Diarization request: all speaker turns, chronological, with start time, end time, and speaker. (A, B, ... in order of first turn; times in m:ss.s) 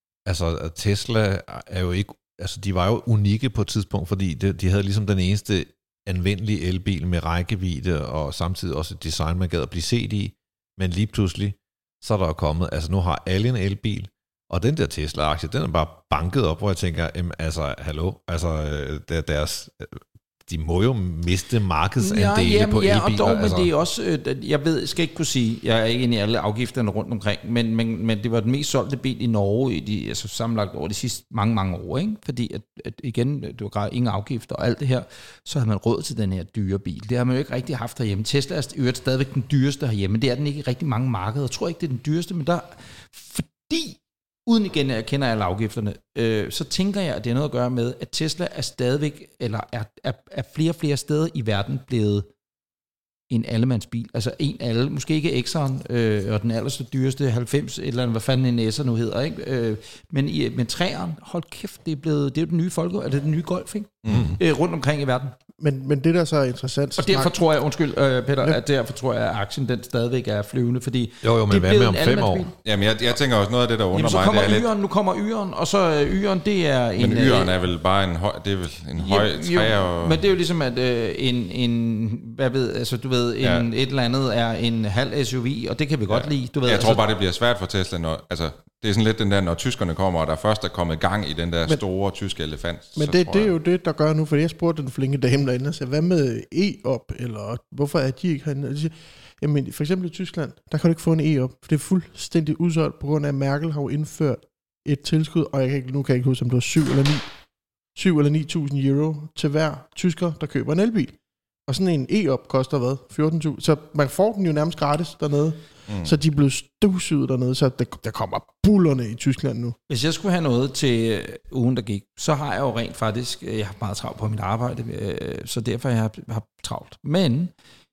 0:00.2-0:23.7 A
0:22.0-0:52.3 B
0:53.3-1:05.3 B
1:04.0-1:04.4 C
1:04.1-1:04.4 A
1:05.6-1:07.3 D
1:07.0-1:12.5 B
1:11.2-1:12.5 A
1:12.6-1:14.7 C
1:13.9-1:17.5 B
1:17.0-1:20.2 C
1:19.0-1:27.0 B
1:26.1-1:33.5 C
1:33.0-1:47.3 D
1:47.9-1:51.2 D
1:51.7-1:59.8 D
1:55.9-1:56.1 C
1:59.9-2:07.5 B